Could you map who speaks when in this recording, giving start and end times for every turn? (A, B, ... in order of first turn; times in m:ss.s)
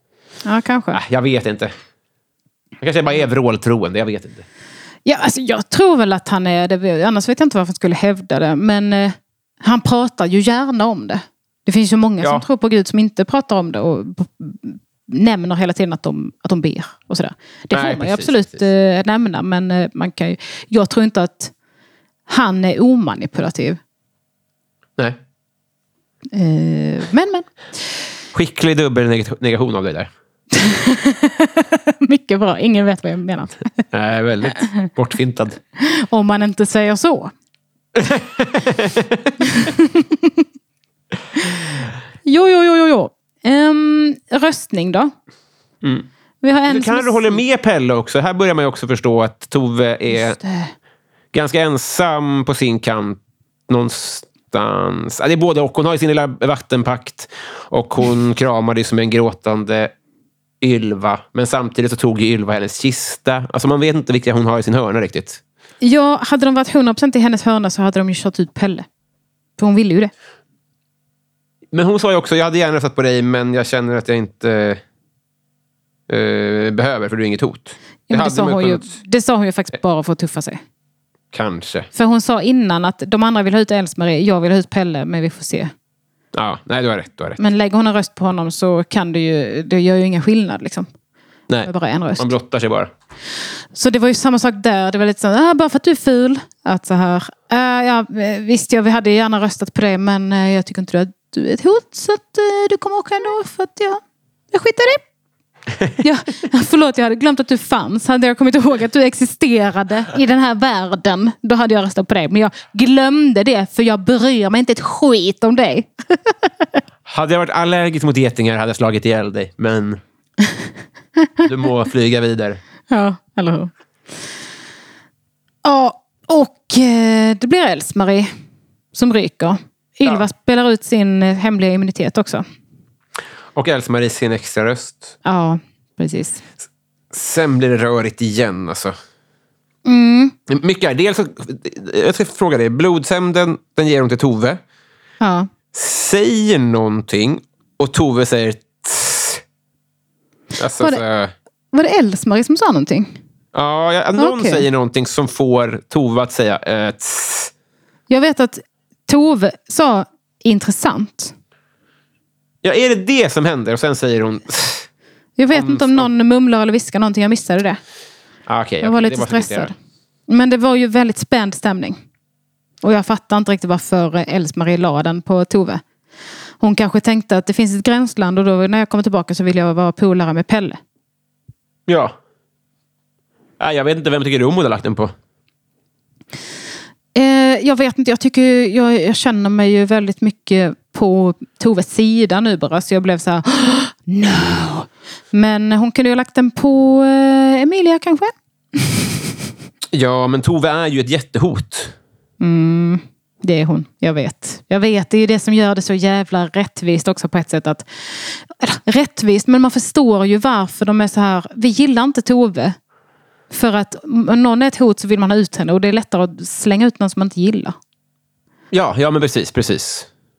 0:00.4-0:01.0 A
0:00.9-0:01.7 B
0:02.8-0:04.4 B
0:05.1-0:21.5 A
0:17.7-0:18.6 B
0:22.3-0:23.8 A
0:26.3-0:27.5 A
0:28.3-0:30.1 B
0:30.5-0:33.6 A
0:33.9-0:35.6 B
0:34.6-0:34.9 A
0:35.8-0:37.3 A
0:38.0-0:39.4 B
0:39.4-0:40.4 A
0:42.2-0:45.1 A
0:45.8-0:46.1 B
0:46.4-0:47.4 A
0:46.7-0:50.4 B
0:50.1-0:50.7 A
0:51.3-0:59.9 B
1:00.6-1:05.4 B
1:05.8-1:08.8 A
1:09.6-1:10.1 A
1:11.7-1:14.8 B
1:16.1-1:18.9 B
1:18.1-1:20.6 A
1:21.3-1:21.9 B
1:21.9-1:25.7 A
1:26.3-1:27.4 B
1:27.4-1:30.9 A
1:31.5-1:32.9 B
1:31.6-1:32.3 A
1:33.7-1:45.0 A
1:46.0-1:56.8 A
1:57.1-2:00.0 B
2:01.4-2:02.6 B
2:02.9-2:03.7 A
2:05.6-2:08.3 A
2:08.9-2:12.4 A
2:13.6-2:15.2 B
2:15.2-2:16.4 A
2:17.1-2:18.9 B
2:19.8-2:20.4 A
2:20.5-2:24.6 B
2:25.2-2:25.5 A
2:25.7-2:29.4 B
2:30.6-2:31.3 B
2:31.7-2:33.2 A
2:33.5-2:37.5 B
2:34.2-2:34.7 A
2:38.1-2:41.3 A
2:42.6-2:44.9 B
2:45.4-2:47.8 A
2:45.5-2:46.1 B
2:48.5-2:49.7 B
2:48.8-2:49.7 A
2:50.3-2:52.0 A
2:52.8-2:55.8 A
2:56.6-3:00.8 A
3:01.9-3:02.2 B
3:03.6-3:05.1 B
3:07.2-3:19.2 A
3:19.9-3:22.0 B
3:22.4-3:32.8 A
3:33.5-3:37.8 A
3:38.7-3:40.1 B